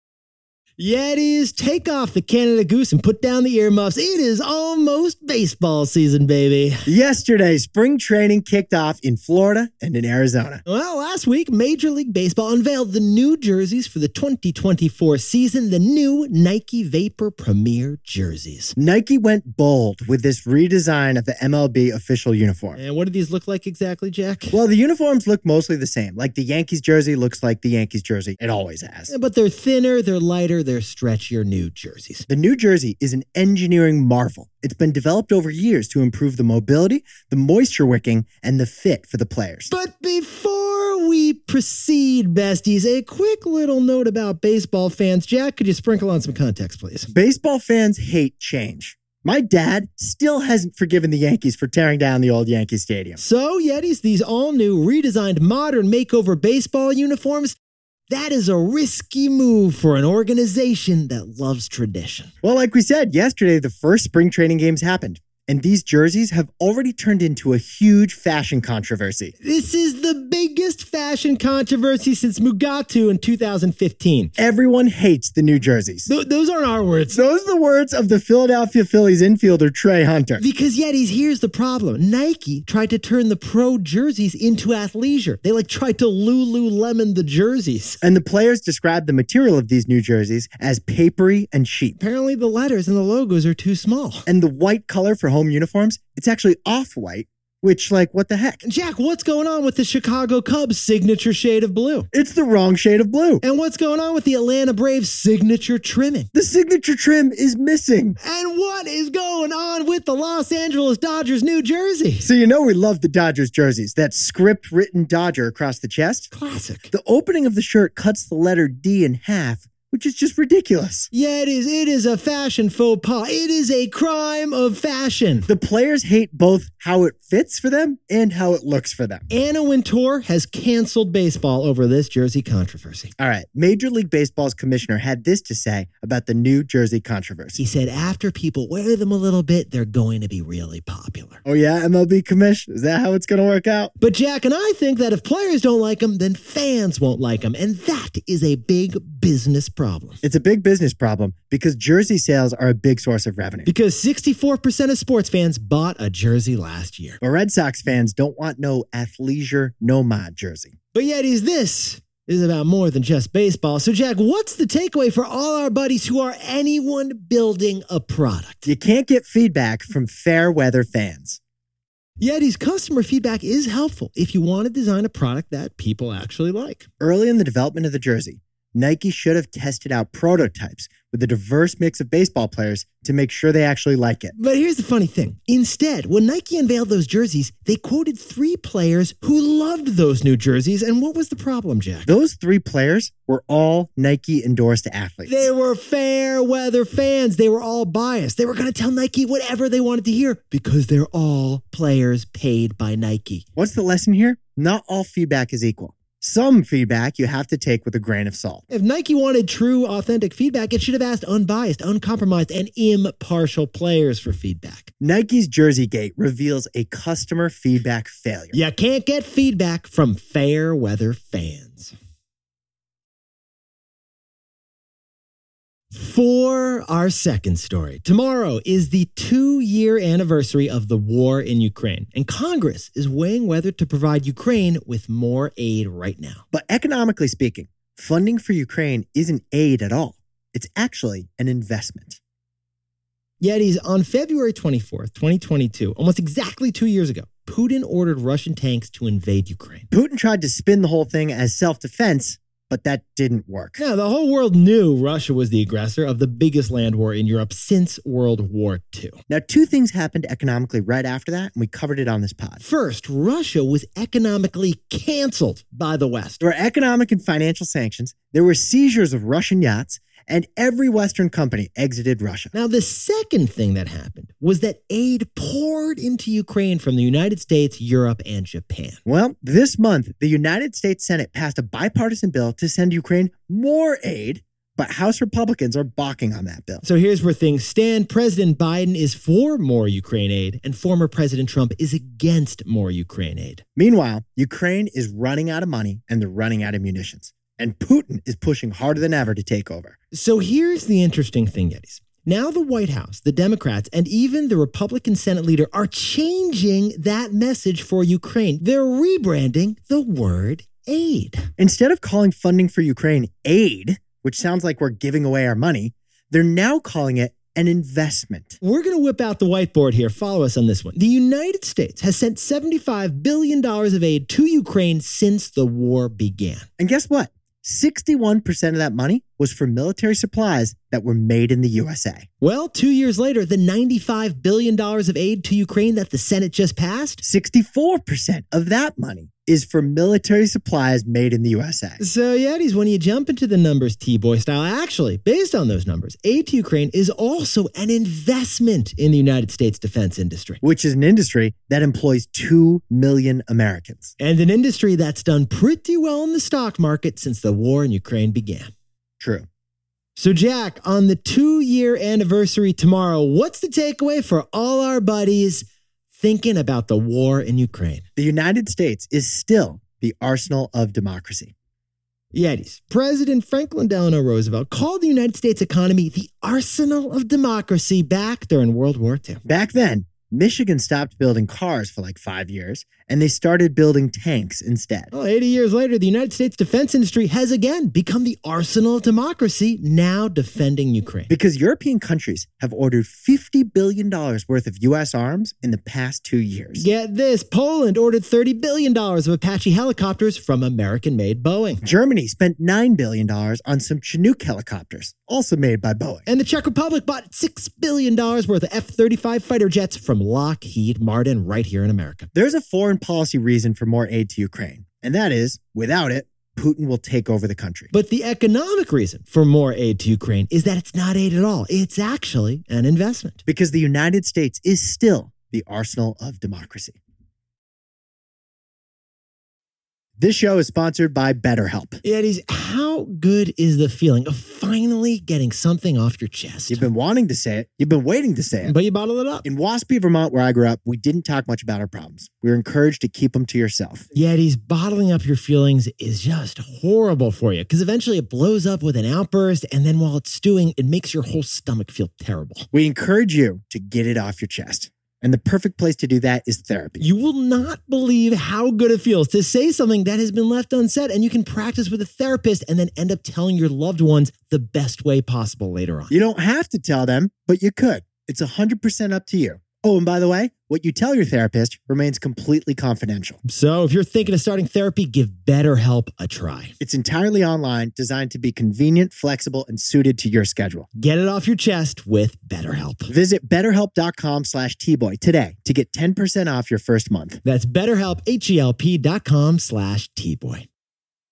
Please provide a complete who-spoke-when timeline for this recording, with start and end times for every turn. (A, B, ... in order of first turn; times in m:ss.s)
0:00.8-0:06.9 A
0:06.8-0:10.6 B
0:10.6-0:18.7 A
0:18.8-0:22.8 B
0:22.8-0:24.6 A
0:24.5-0:29.1 B
0:29.1-0:32.2 A
0:32.3-0:39.7 B
0:39.7-0:47.1 A
0:47.1-0:53.2 B
0:53.2-0:57.6 A
0:58.1-1:02.3 A
1:02.4-1:09.3 B
1:09.4-1:14.3 A
1:14.4-1:16.1 B
1:16.1-1:17.2 A
1:17.1-1:20.4 B
1:20.4-1:28.0 A
1:28.0-1:32.0 B
1:32.0-1:34.2 A
1:34.2-1:38.6 B
1:38.6-1:42.1 A
1:42.1-1:43.4 B
1:43.4-1:46.3 A
1:46.3-1:48.2 B
1:48.2-1:52.3 A
1:52.2-1:56.3 B
1:56.3-1:56.9 A
1:56.9-2:01.1 B
2:01.1-2:05.5 A
2:05.5-2:09.3 B
2:09.3-2:13.1 A
2:13.2-2:17.6 B
2:17.6-2:21.4 A
2:21.4-2:23.9 B
2:24.0-2:30.2 A
2:30.2-2:33.7 B
2:33.6-2:37.2 A
2:37.2-2:40.7 B
2:40.9-2:48.6 A
2:48.6-2:51.4 B
2:52.2-2:56.9 A
2:57.0-3:04.3 B
3:04.3-3:12.1 A
3:12.0-3:15.5 B
3:15.2-3:23.4 A
3:23.6-3:28.6 B
3:28.7-3:34.9 A
3:35.0-3:38.6 B
3:38.5-3:41.9 A
3:45.9-3:56.4 A
3:56.5-4:02.2 B
4:03.4-4:09.9 A
4:09.9-4:13.8 B
4:13.8-4:19.2 A
4:19.3-4:22.6 B
4:22.6-4:26.4 A
4:26.4-4:32.5 B
4:32.5-4:39.0 A
4:39.0-4:46.8 B
4:46.8-4:53.6 A
4:53.8-5:00.0 B
5:00.1-5:11.5 A
5:11.6-5:18.6 B
5:18.6-5:26.7 A
5:26.8-5:32.3 B
5:32.4-5:37.2 A
5:37.2-5:42.0 B
5:42.0-5:50.6 A
5:50.6-5:54.2 B
5:54.2-5:58.7 A
5:59.2-5:59.5 B
6:00.2-6:08.0 A
6:08.2-6:11.5 B
6:12.3-6:19.4 A
6:19.4-6:25.1 B
6:25.1-6:31.3 A
6:31.3-6:36.9 B
6:36.7-6:41.8 A
6:41.8-6:46.2 B
6:46.3-6:52.3 A
6:52.3-6:57.9 B
6:57.9-7:03.4 A
7:03.4-7:07.0 B
7:10.2-7:12.0 B
7:12.0-7:16.9 A
7:16.7-7:18.8 B
7:18.6-7:19.4 A
7:19.4-7:24.1 B
7:24.1-7:32.7 A
7:32.7-7:37.0 B
7:37.0-7:46.1 A
7:46.1-7:53.4 B
7:53.4-7:56.7 A
7:56.8-8:00.9 B
8:00.9-8:03.1 A
8:03.1-8:07.4 B
8:07.4-8:10.7 A